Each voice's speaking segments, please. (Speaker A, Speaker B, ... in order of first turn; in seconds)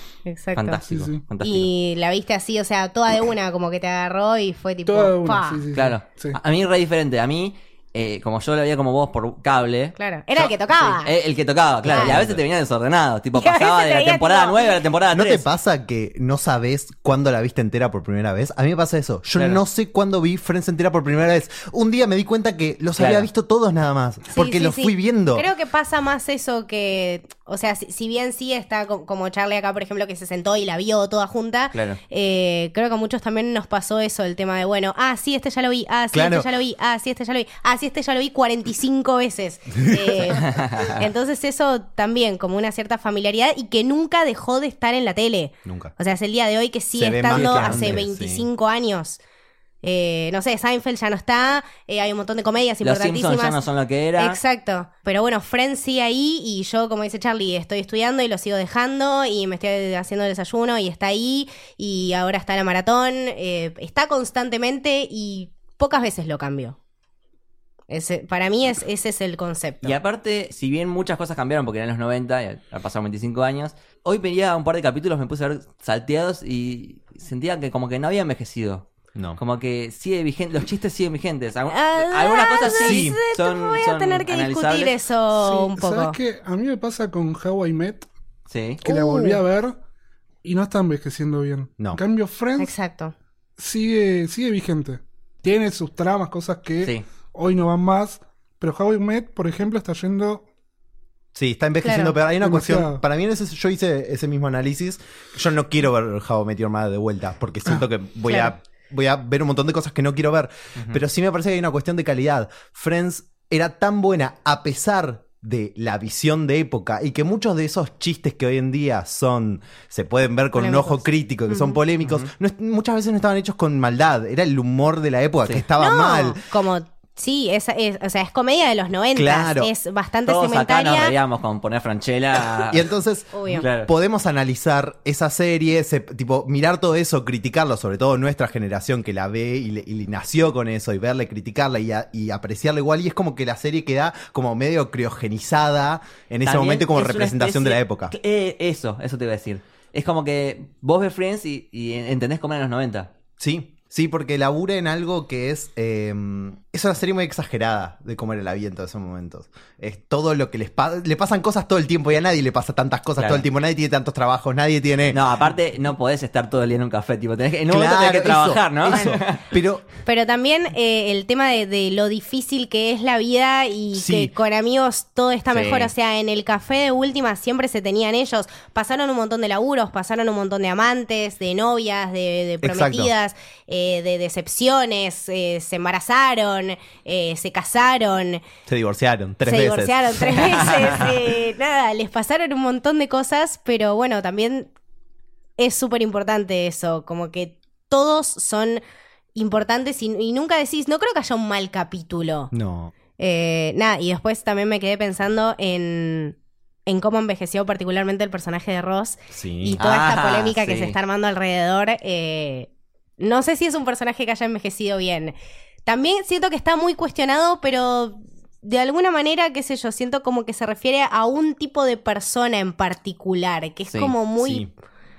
Speaker A: 0.3-0.8, 1.4-5.6, 10.0-11.1, 11.9-12.2, 13.4-14.8, 24.3-49.2, 49.8-53.6, 54.2-66.8, 67.9-70.0, 81.7-86.2, 88.8-89.4, 92.6-93.1, 101.8-102.2, 108.3-108.5, 120.5-121.8, 125.8-131.2, 133.3-133.7, 168.9-169.2, 170.0-188.4, 189.5-194.7, 195.6-198.8, 199.3-202.5, 203.2-206.4, 206.9-215.3, 215.9-224.7
Speaker B: 0.6-1.7, 5.7-15.4, 19.4-19.6, 23.0-23.3, 31.7-32.0, 40.5-40.9, 47.3-48.0, 52.8-54.4, 69.8-85.0, 88.5-88.8, 122.0-122.3, 130.3-132.9, 133.6-133.9, 146.4-153.1, 163.2-163.5, 165.1-169.4, 175.5-175.9, 209.8-211.0
Speaker C: 0.9-1.2, 4.9-6.4, 85.3-88.1, 88.8-89.8, 90.4-92.7, 93.6-100.5, 102.4-103.0
Speaker D: 11.8-12.4, 15.1-25.5, 36.1-36.5, 39.8-40.2, 45.6-45.9, 47.0-48.5, 82.8-83.2, 101.3-126.4, 129.2-129.7, 132.7-148.1, 153.4-165.3, 167.7-169.8, 173.9-174.3, 182.6-183.1, 188.7-191.0, 202.5-202.9, 209.3-209.8, 224.4-224.7